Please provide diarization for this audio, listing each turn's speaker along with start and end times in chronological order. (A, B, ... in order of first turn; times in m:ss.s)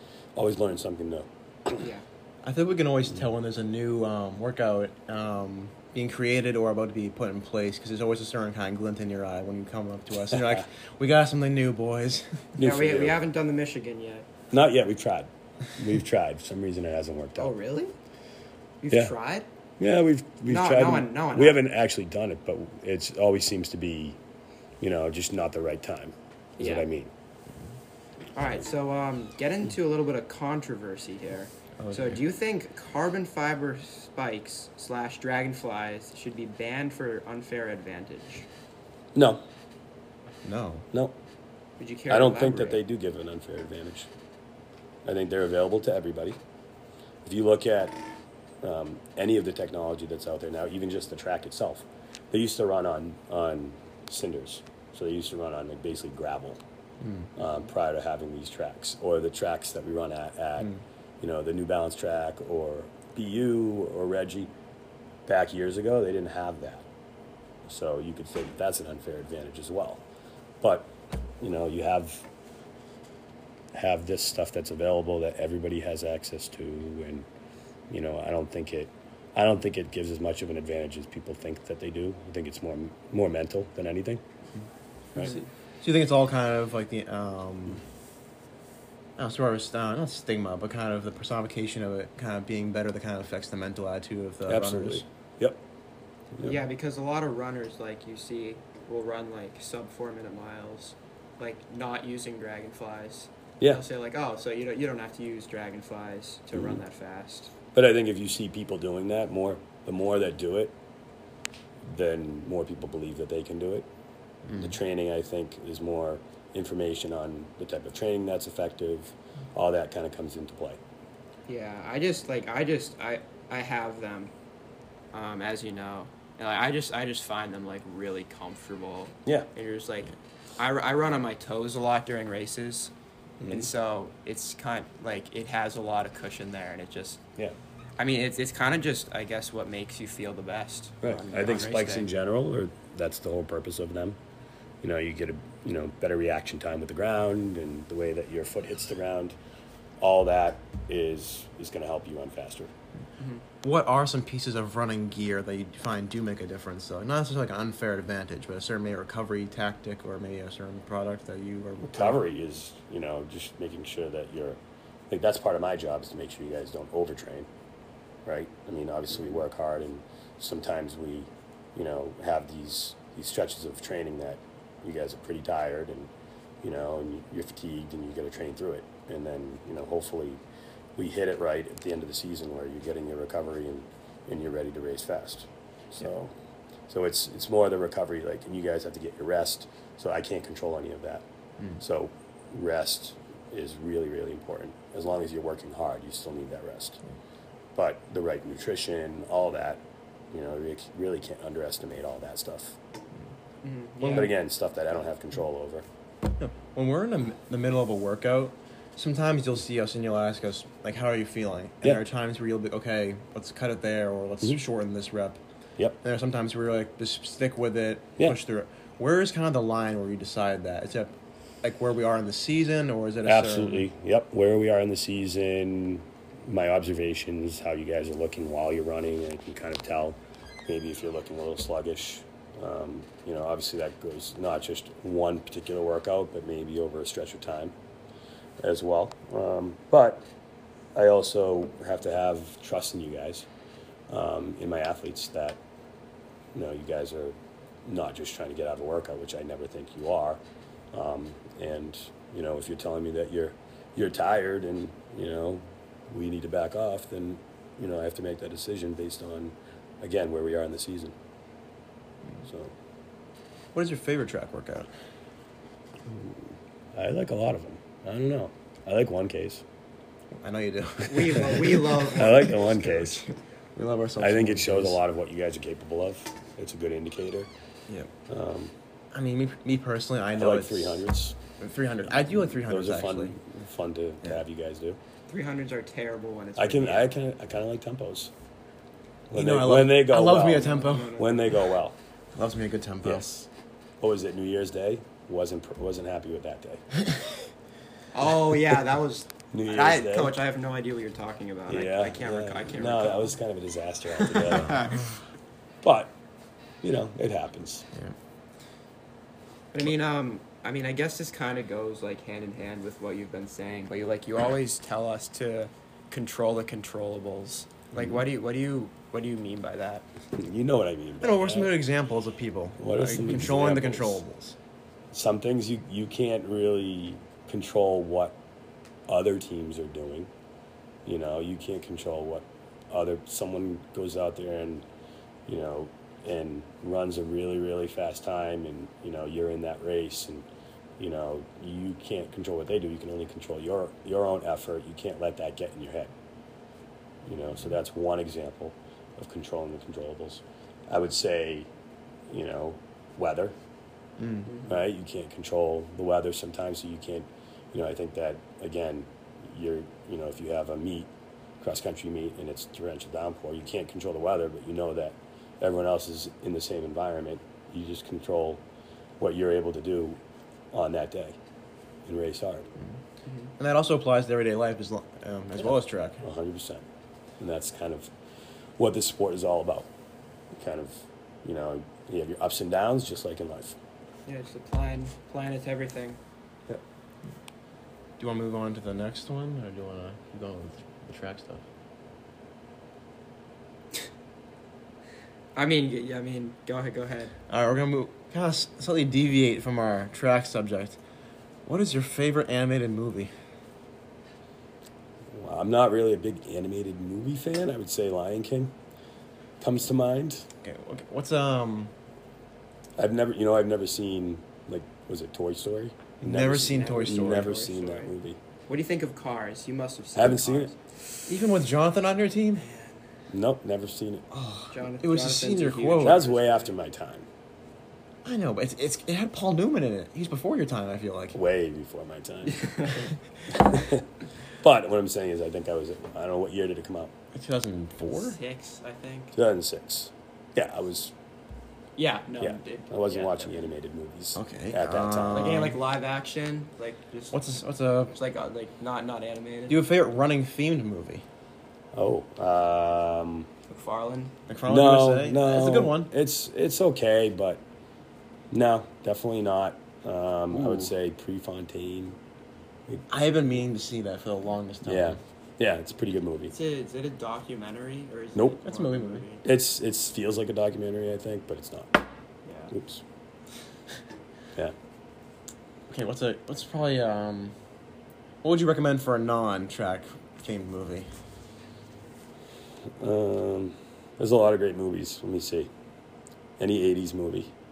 0:00.4-0:01.9 A
0:02.4-0:12.5 B
0:12.6-0:13.2 A
0:12.6-0:14.3 C
0:14.5-0:17.5 A
0:17.4-0:17.9 C
0:18.8-0:19.4 C
0:18.9-0:19.1 A
0:19.8-0:24.2 A
0:20.5-0:21.6 C
0:24.8-0:27.1 A
0:26.6-0:26.8 C
0:28.3-0:38.5 C
0:31.8-0:32.2 B
0:39.1-0:39.4 A
0:40.4-0:40.8 B
0:41.8-0:42.8 C
0:42.1-0:44.1 A
0:45.0-0:46.4 A
0:47.2-0:48.0 A
0:48.6-0:56.6 A
0:57.4-1:04.5 A
1:05.2-1:06.8 A
1:07.6-1:10.0 A
1:10.6-1:12.2 A
1:13.7-1:17.3 A
1:17.9-1:24.2 A
1:25.1-1:25.4 A
1:25.8-1:27.8 B
1:29.2-1:35.0 B
1:34.4-1:35.6 A
1:36.3-1:36.6 A
1:36.4-1:47.5 C
1:46.5-1:46.8 A
1:47.7-1:50.7 A
1:51.8-1:53.8 A
1:54.5-1:54.7 B
1:54.6-2:00.8 A
2:01.5-2:04.3 C
2:05.1-2:12.9 C
2:13.5-2:17.2 C
2:18.0-2:22.1 C
2:21.0-2:24.2 A
2:24.8-2:29.4 A
2:30.0-2:32.7 A
2:33.6-2:42.2 B
2:41.8-2:44.6 A
2:45.1-2:47.5 A
2:48.2-2:56.1 A
2:56.6-3:00.4 A
3:01.0-3:06.3 A
3:06.9-3:11.2 A
3:11.8-3:17.0 A
3:17.7-3:22.8 A
3:23.6-3:24.3 C
3:24.0-3:24.3 B
3:24.1-3:25.8 A
3:26.4-3:35.4 B
3:36.0-3:43.8 B
3:43.2-3:57.7 A
3:58.6-4:00.2 A
4:00.9-4:03.5 A
4:04.1-4:05.6 A
4:06.5-4:10.4 A
4:10.9-4:21.1 A
4:22.4-4:22.7 A
4:23.7-4:24.9 B
4:26.0-4:29.6 A
4:30.4-4:35.0 B
4:31.1-4:32.7 C
4:32.0-4:33.2 A
4:34.2-4:37.5 A
4:38.3-4:38.7 A
4:39.1-4:41.1 B
4:40.3-4:41.4 A
4:41.6-4:43.4 B
4:42.4-4:45.0 A
4:45.3-4:47.2 C
4:46.6-4:48.3 A
4:49.3-4:52.0 A
4:49.3-4:51.1 B
4:50.4-4:51.6 C
4:52.3-4:53.3 B
4:53.0-4:53.5 A
4:54.0-4:56.8 A
4:58.1-5:03.4 C
4:59.5-5:00.4 A
5:01.7-5:05.0 A
5:04.3-5:04.9 C
5:05.8-5:06.1 A
5:06.8-5:07.8 A
5:09.7-5:20.1 C
5:20.3-5:21.7 A
5:21.2-5:24.5 B
5:22.8-5:24.2 A
5:25.1-5:28.4 A
5:29.1-5:30.3 A
5:31.0-5:34.8 A
5:35.5-5:40.5 A
5:41.0-5:46.1 A
5:47.2-5:51.7 A
5:52.3-5:53.5 A
5:54.2-5:54.5 B
5:54.4-5:54.8 C
5:54.6-6:08.6 A
6:09.2-6:10.2 A
6:10.7-6:11.4 A
6:12.0-6:12.7 A
6:13.6-6:16.2 B
6:16.2-6:16.8 A
6:17.4-6:18.1 A
6:18.8-6:19.9 A
6:20.5-6:23.8 A
6:24.3-6:26.2 C
6:28.2-6:31.6 B
6:35.5-6:37.3 C
6:37.5-6:41.0 B
6:41.6-6:43.3 B
6:45.3-6:48.8 A
6:49.6-6:50.5 A
6:50.6-6:51.9 B
6:53.0-6:58.4 A
6:56.2-6:57.5 B
6:56.5-6:58.1 C
6:58.7-7:00.8 C
7:00.1-7:00.7 A
7:01.3-7:02.6 B
7:03.3-7:04.2 A
7:04.3-7:06.2 B
7:04.7-7:06.7 C
7:06.0-7:07.3 A
7:08.2-7:11.4 B
7:11.3-7:12.7 A
7:12.5-7:13.1 C
7:13.5-7:17.1 A
7:17.3-7:18.4 B
7:18.1-7:19.3 C
7:19.3-7:21.1 A
7:22.0-7:23.5 C
7:22.4-7:25.7 A
7:24.3-7:25.8 B
7:25.3-7:27.4 C
7:27.3-7:28.1 B
7:28.1-7:29.8 C
7:29.7-7:31.2 B
7:31.9-7:33.5 A
7:33.7-7:34.3 C
7:34.5-7:36.1 B
7:34.7-7:37.6 A
7:38.5-7:42.2 A
7:40.5-7:40.9 B
7:43.1-7:45.2 B
7:44.8-7:46.5 A
7:46.5-7:49.4 C
7:48.6-7:49.2 B
7:49.4-7:52.0 A
7:52.4-7:52.7 C
7:52.7-7:53.0 A
7:55.9-7:57.5 B
7:58.4-8:01.1 B
8:03.0-8:05.7 A
8:06.6-8:07.5 A